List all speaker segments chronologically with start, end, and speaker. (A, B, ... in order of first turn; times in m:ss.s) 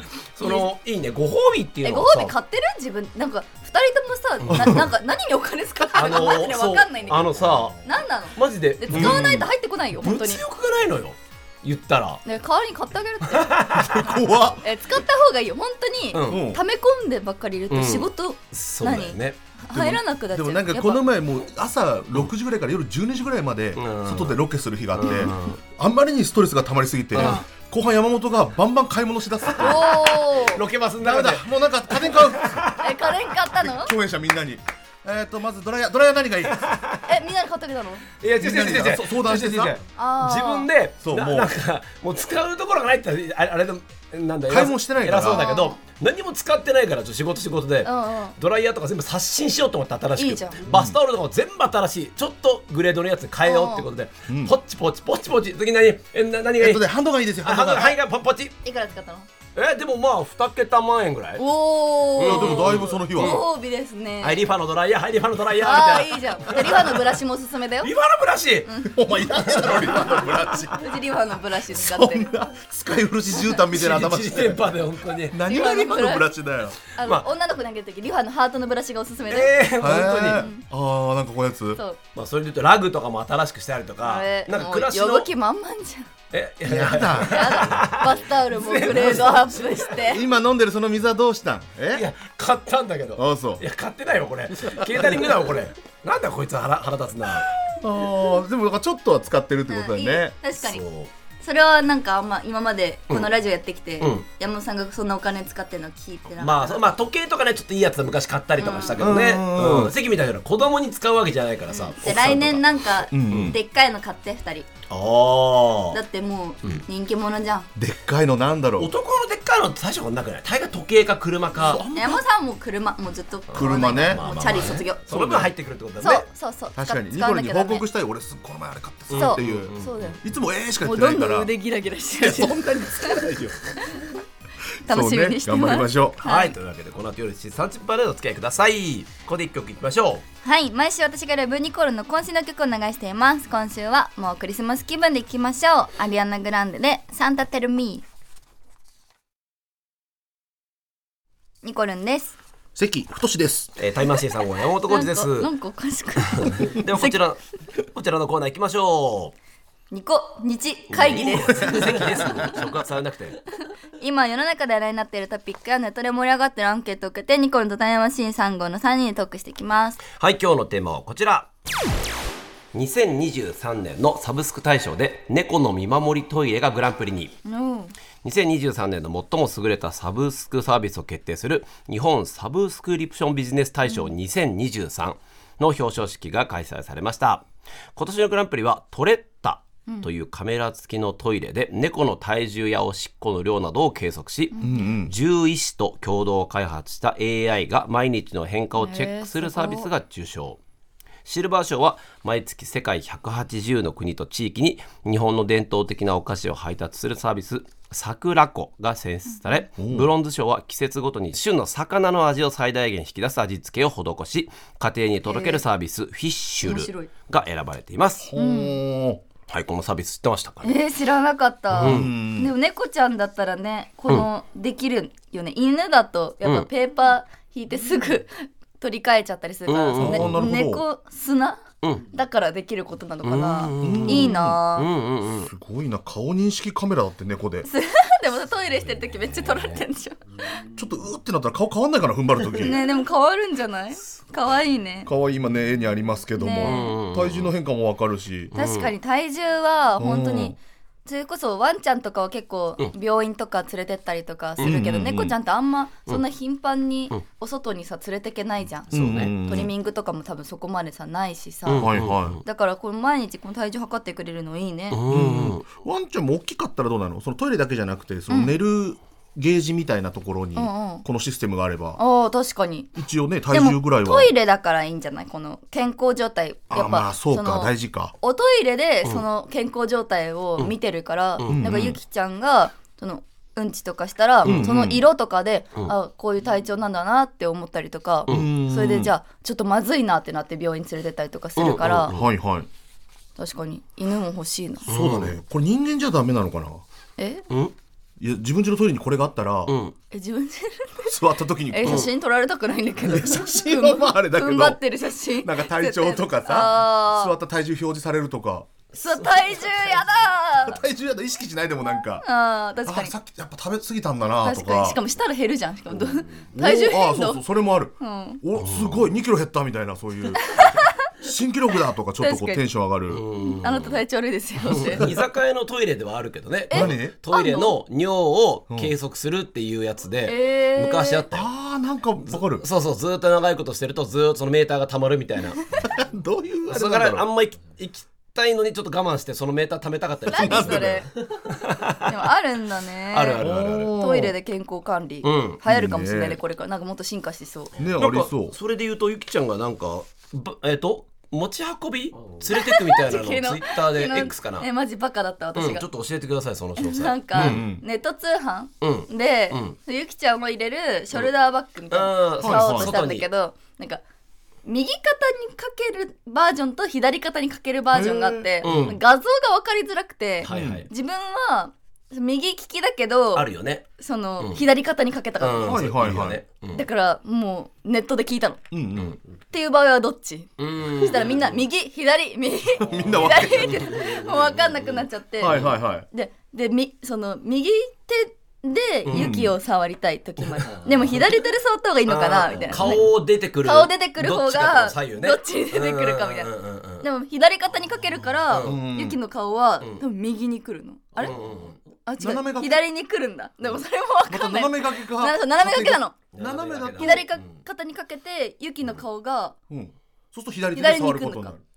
0:00.3-0:02.3 A
0:00.4-0:00.7 B
0:01.8-0:07.3 B
0:04.4-0:04.8 A
0:04.5-0:04.9 C
0:05.9-0:07.8 A
0:07.8-0:10.4 B
0:08.3-0:09.4 A
0:08.9-0:09.4 C
0:10.0-0:12.2 A
0:12.2-0:21.0 B
0:13.3-0:14.0 A
0:13.9-0:14.6 C
0:16.1-0:16.4 A
0:16.3-0:16.6 C
0:17.7-0:19.4 A
0:19.7-0:29.9 C
0:23.8-0:24.4 A
0:25.0-0:25.6 A
0:27.1-0:27.4 A
0:27.2-0:27.4 B
0:29.6-0:30.6 B
0:29.6-0:33.0 A
0:31.0-0:32.7 C
0:32.8-0:33.9 B
0:33.5-0:36.6 C
0:36.5-0:37.0 A
0:37.0-0:38.0 B
0:38.2-0:56.8 A
0:38.4-0:39.7 C
0:40.0-0:40.7 B
0:41.0-0:41.5 C
0:44.5-0:45.5 C
0:45.2-0:45.8 B
0:47.8-0:48.3 B
0:50.2-0:50.6 B
0:50.7-0:51.0 C
0:53.4-0:53.8 B
0:54.3-0:54.6 C
0:56.6-0:58.0 C
0:57.4-0:58.5 A
0:58.6-0:59.3 B
0:59.5-1:01.4 A
1:01.4-1:04.5 B
1:02.2-1:03.4 A
1:02.2-1:03.4 C
1:04.2-1:07.1 A
1:05.6-1:07.9 B
1:07.8-1:08.7 A
1:08.6-1:09.0 B
1:08.8-1:10.9 C
1:09.3-1:10.4 A
1:10.7-1:12.3 B
1:11.7-1:16.8 C
1:13.7-1:15.4 A
1:15.4-1:16.3 B
1:16.9-1:20.6 B
1:17.0-1:17.3 A
1:19.3-1:20.5 A
1:19.8-1:21.8 C
1:22.1-1:25.3 A
1:24.0-1:26.1 B
1:26.3-1:30.0 A
1:26.6-1:27.8 C
1:27.2-1:30.2 B
1:30.0-1:32.1 C
1:31.9-1:37.5 A
1:33.2-1:33.6 C
1:34.6-1:35.5 C
1:37.6-1:40.4 C
1:39.7-1:40.8 B
1:40.6-1:41.1 A
1:41.4-1:46.8 B
1:44.0-1:44.2 A
1:46.4-1:52.8 A
1:48.6-1:49.0 B
1:49.0-1:49.9 C
1:51.7-1:54.7 B
1:53.1-1:53.6 C
1:53.3-1:53.5 A
1:54.9-1:56.0 A
1:55.9-1:57.7 B
1:57.8-1:58.9 C
1:58.8-2:01.8 A
2:01.6-2:02.2 C
2:01.9-2:05.1 B
2:03.5-2:06.2 A
2:03.5-2:04.2 C
2:05.1-2:05.5 C
2:06.0-2:07.8 B
2:06.7-2:11.5 C
2:09.1-2:10.2 A
2:09.1-2:10.2 B
2:10.8-2:13.2 B
2:12.2-2:13.9 C
2:14.8-2:16.2 C
2:14.9-2:16.5 B
2:16.2-2:20.2 A
2:20.4-2:28.0 B
2:31.6-2:32.4 B
2:32.7-2:33.7 C
2:33.8-2:35.5 A
2:34.9-2:37.2 B
2:36.3-2:39.3 A
2:39.9-2:42.6 B
2:40.9-2:43.4 A
2:44.0-2:50.0 B
2:50.1-2:51.5 A
2:52.7-2:57.4 A
2:57.4-2:57.9 B
2:58.2-3:20.6 A
3:03.9-3:04.1 B
3:14.5-3:14.8 B
3:14.6-3:15.1 C
3:18.8-3:19.9 B
3:21.2-3:38.3 A
3:29.8-3:30.1 C
3:35.2-3:35.6 B
3:36.6-3:37.1 B
3:38.2-3:39.2 C
3:38.4-3:38.8 B
3:39.5-3:40.8 A
3:40.6-3:54.9 B
3:41.7-3:42.1 A
3:41.8-3:42.5 C
3:46.4-3:46.7 A
3:49.7-3:50.5 A
3:50.0-3:50.8 C
3:53.2-3:55.5 A
3:53.8-3:54.6 C
3:55.4-3:57.7 C
3:57.6-4:00.6 B
4:00.7-4:02.8 C
4:02.6-4:05.1 B
4:05.0-4:08.5 C
4:06.4-4:06.9 B
4:06.6-4:07.5 A
4:08.5-4:08.9 A
4:08.5-4:25.0 B
4:10.0-4:10.6 C
4:14.6-4:15.3 C
4:18.9-4:19.3 A
4:18.9-4:19.7 C
4:21.7-4:22.4 A
4:21.8-4:22.4 C
4:24.9-4:25.6 A
4:25.1-4:32.0 C
4:28.3-4:28.5 B
4:30.6-4:31.0 B
4:32.0-4:32.9 B
4:33.0-4:34.3 C
4:33.5-4:52.1 B
4:36.7-4:38.1 C
4:41.4-4:42.0 C
4:44.4-4:45.0 C
4:48.3-4:49.1 C
4:51.6-4:52.3 A
4:52.1-4:52.7 C
4:53.4-4:54.9 B
4:54.9-4:55.4 A
4:54.9-4:56.8 C
4:57.2-4:57.4 B
4:58.2-4:59.8 C
4:59.7-4:59.9 A
5:00.1-5:01.1 B
5:01.0-5:02.1 C
5:01.7-5:07.4 B
5:03.0-5:04.8 C
5:05.4-5:08.7 C
5:08.9-5:10.8 B
5:09.0-5:10.1 A
5:10.6-5:12.2 C
5:12.2-5:13.1 B
5:12.8-5:15.0 C
5:14.4-5:17.4 B
5:16.5-5:23.2 C
5:18.0-5:18.4 B
5:18.6-5:19.0 A
5:20.4-5:20.9 B
5:22.2-5:22.6 B
5:23.1-5:24.0 A
5:23.6-5:25.0 B
5:24.6-5:31.5 A
5:26.7-5:27.8 B
5:26.7-5:27.1 C
5:30.2-5:31.2 B
5:31.3-5:32.6 C
5:32.2-5:35.8 A
5:35.8-5:37.3 C
5:36.7-5:42.1 A
5:40.3-5:41.1 B
5:40.4-5:41.0 C
5:42.0-5:47.7 B
5:43.1-5:44.0 A
5:43.4-5:44.3 C
5:45.2-5:45.6 A
5:45.6-5:46.4 C
5:47.8-5:48.5 C
5:48.0-5:54.7 A
5:52.5-5:55.8 B
5:55.6-5:57.6 A
5:56.8-6:04.0 B
5:57.3-5:57.8 C
5:58.8-5:59.8 A
6:01.9-6:03.2 A
6:02.4-6:03.0 C
6:04.6-6:13.5 B
6:07.9-6:09.0 C
6:08.6-6:09.0 A
6:10.4-6:10.9 A
6:10.5-6:10.8 C
6:13.3-6:13.9 A
6:14.0-6:15.8 B
6:15.4-6:16.8 A
6:15.6-6:16.4 C
6:16.7-6:18.6 B
6:18.7-6:19.1 C
6:19.5-6:33.1 B
6:20.6-6:21.6 A
6:22.8-6:23.9 C
6:22.9-6:25.8 A
6:25.4-6:26.0 C
6:29.1-6:29.4 A
6:29.1-6:29.5 C
6:30.4-6:31.3 A
6:32.0-6:37.1 A
6:33.6-6:41.4 B
6:38.4-6:38.8 A
6:38.6-6:39.2 C
6:41.2-6:41.8 A
6:42.0-6:46.2 B
6:42.2-6:42.8 C
6:44.3-6:47.3 C
6:46.3-6:47.6 A
6:47.0-6:49.6 B
6:49.7-6:51.6 C
6:50.7-6:51.5 B